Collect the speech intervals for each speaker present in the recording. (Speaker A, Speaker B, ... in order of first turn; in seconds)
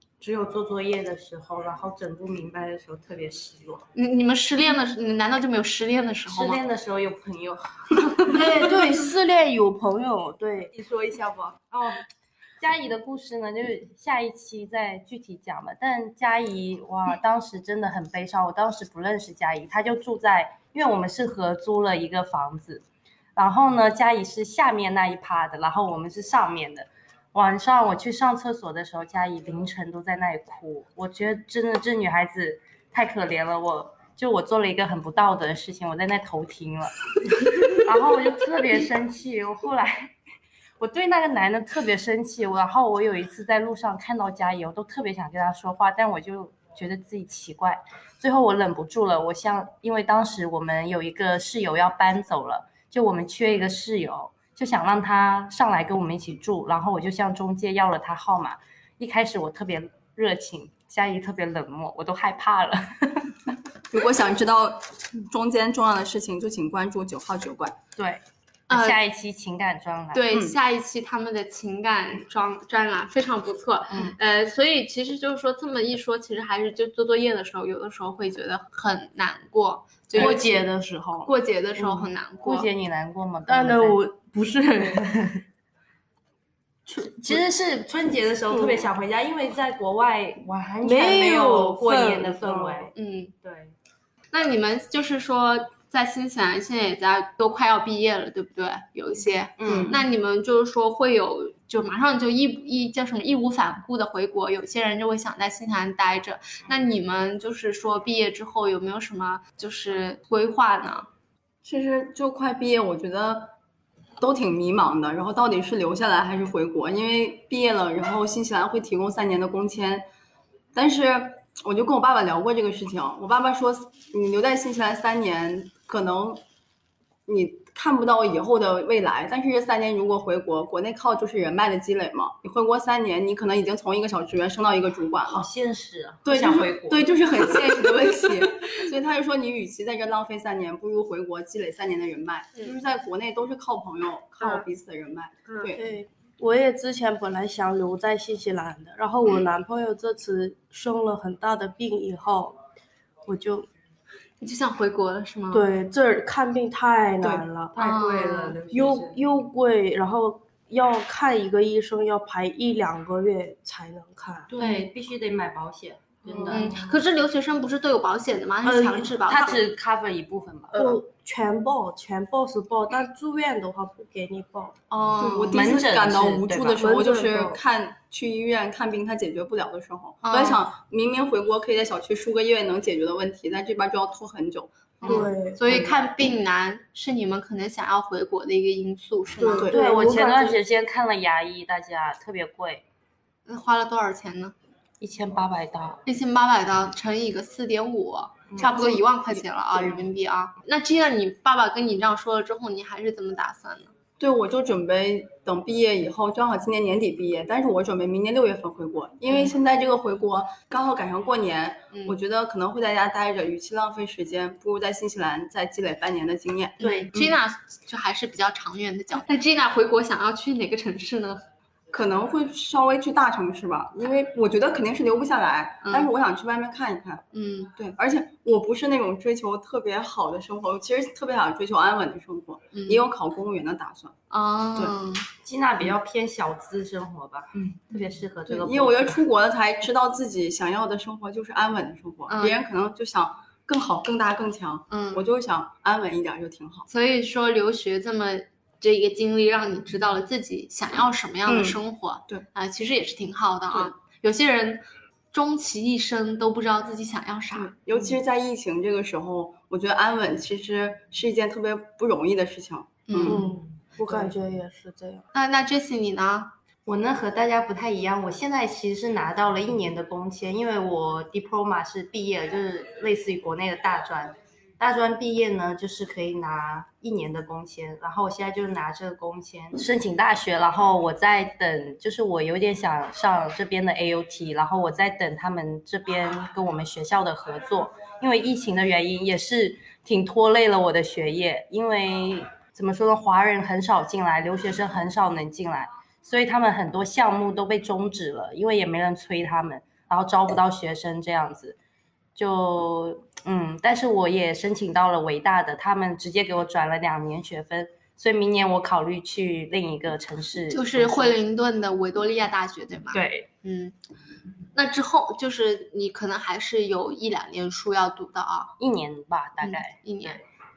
Speaker A: 0.2-3.9, 6.3-8.9, 10.7-12.0, 12.6-22.8, 23.4-40.1, 40.8-63.3, 68.0-70.3, 81.8-84.0, 86.9-93.7, 99.6-100.0, 135.2-137.6, 157.7-159.2, 164.5-166.8, 169.2-170.7, 175.5-176.8, 189.7-192.8, 195.0-196.0, 235.4-239.2, 266.9-301.8, 302.3-311.4, 313.1-313.5, 318.8-320.4
Speaker B: 3.9-6.6, 68.7-69.0, 70.1-80.6, 81.2-82.7, 92.9-93.3, 94.3-111.1, 144.4-144.7, 154.4-155.6, 157.8-158.6, 166.5-169.6, 174.9-175.8, 180.2-180.6, 185.0-189.7, 193.5-194.5, 196.1-203.9, 211.9-212.2, 216.8-221.4, 225.8-226.1, 227.3-227.7, 232.7-233.0, 234.3-235.3, 242.3-242.6, 244.9-245.2, 246.9-257.8, 263.1-263.4, 265.3-266.5, 310.7-313.9, 314.7-318.7, 319.6-320.4
Speaker C: 8.3-10.7, 80.2-81.3, 83.5-85.3, 88.5-88.9, 90.8-92.9, 145.7-152.6, 153.3-153.7, 155.5-157.9, 158.7-164.5, 166.3-166.8, 168.6-169.2, 170.7-174.7, 176.8-177.6, 185.0-185.6, 189.4-190.6, 263.2-265.2
Speaker D: 63.9-67.8, 99.7-100.0, 111.6-113.5, 114.2-120.0, 120.7-126.4, 127.3-135.5, 136.2-145.8, 175.2-185.9, 189.5-189.8, 198.6-200.0, 204.2-217.4, 221.9-227.2, 227.7-234.2, 238.4-246.9, 251.4-252.4, 257.5-263.4